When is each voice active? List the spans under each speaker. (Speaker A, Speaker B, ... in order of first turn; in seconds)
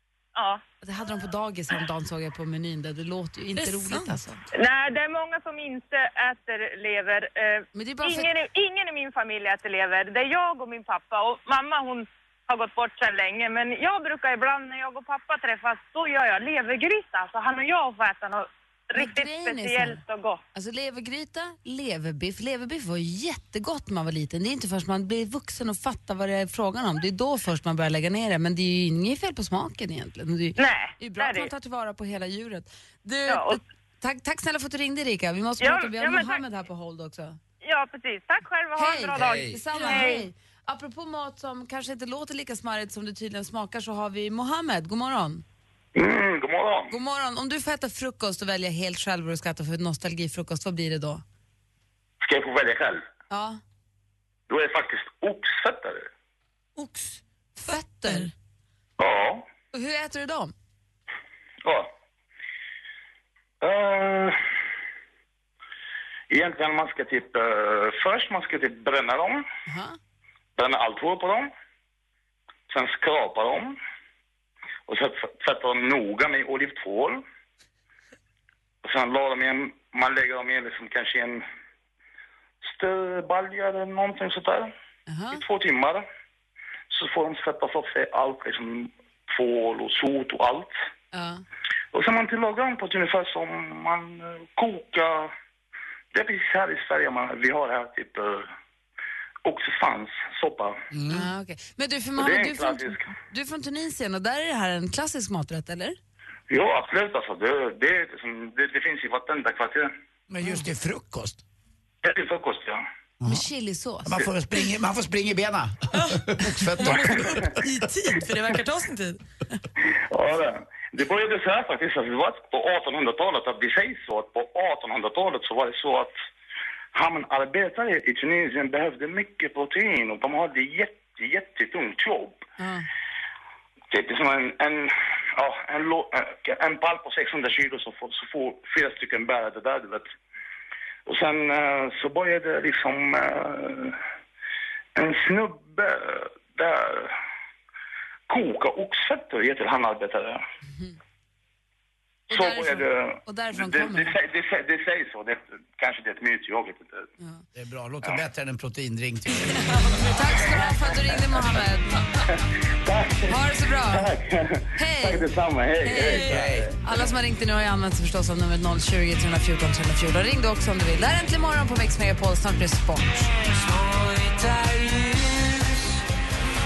Speaker A: 0.3-0.6, 4.5-20.4, 30.6-31.5, 33.3-33.6, 35.6-36.4, 37.6-40.3
Speaker B: 0.8-4.4, 7.7-8.3, 19.0-20.0, 20.5-37.4, 38.8-45.4, 46.9-51.2, 53.3-53.6, 57.6-58.3, 59.7-60.5, 69.7-70.0, 85.1-85.4, 91.1-91.4, 101.1-106.0, 113.2-114.2, 132.6-132.9, 152.3-154.2, 160.1-162.0, 163.3-164.1, 164.8-165.3, 165.8-173.3
Speaker C: 3.5-4.2, 56.8-58.3, 115.9-119.2, 159.5-160.5
Speaker D: 39.1-39.6, 100.9-101.3, 110.3-111.4, 113.2-113.5, 114.0-117.6, 157.6-159.6, 166.2-166.7
Speaker E: 45.9-46.9, 52.2-53.0, 54.5-56.1, 59.0-59.5, 61.6-61.9, 63.6-64.4, 66.3-69.4, 70.6-71.5, 72.7-73.8, 74.9-77.2, 78.8-81.4, 82.6-84.7, 85.3-86.1, 86.9-90.8, 91.9-95.3, 96.1-98.5, 99.4-100.8, 102.2-103.1, 106.5-109.9, 112.0-112.8, 119.8-126.1, 126.9-132.4, 133.9-140.1, 141.1-144.0, 144.9-147.1, 148.3-150.4, 152.3-157.0, 162.8-166.8